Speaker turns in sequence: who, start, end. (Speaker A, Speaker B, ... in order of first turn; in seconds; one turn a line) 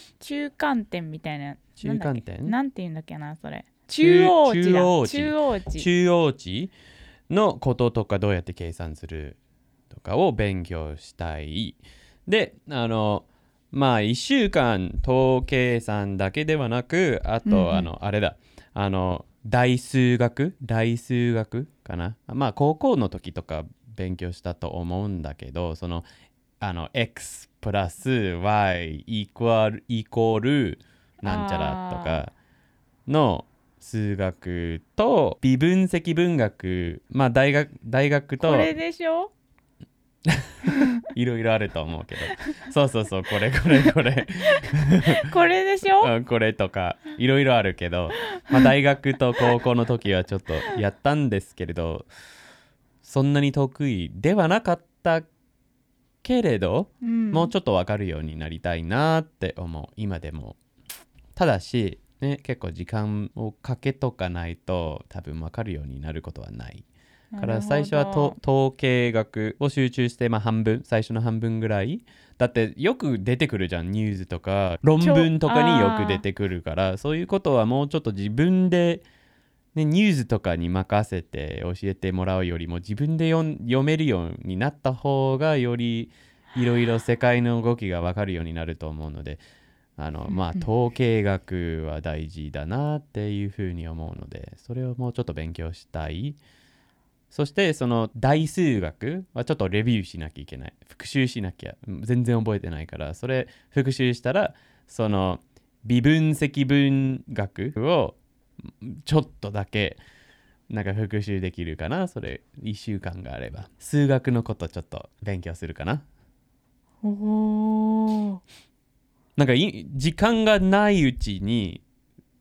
Speaker A: 0.2-5.9
Speaker B: 1.8-2.5
Speaker B: 4.0-6.7
Speaker B: 7.3-9.4
Speaker B: 9.9-26.1
Speaker A: 17.4-17.9
Speaker B: 26.6-32.3
Speaker A: 31.2-32.2
Speaker B: 33.1-38.7
Speaker A: 38.4-39.3
Speaker B: 40.3-45.3
Speaker A: 40.7-40.9
Speaker A: 45.0-46.1
Speaker B: 46.0-52.1
Speaker A: 48.4-48.7
Speaker B: 53.0-55.3
Speaker B: 56.2-60.6
Speaker A: 57.0-57.5
Speaker B: 61.4-66.8
Speaker A: 67.3-68.4
Speaker B: 67.4-79.0
Speaker A: 75.0-76.2
Speaker B: 79.7-89.4
Speaker B: 90.0-96.4
Speaker A: 90.3-90.6
Speaker B: 97.3-110.0
Speaker B: 110.7-116.0
Speaker A: 117.0-118.4
Speaker B: 119.4-121.8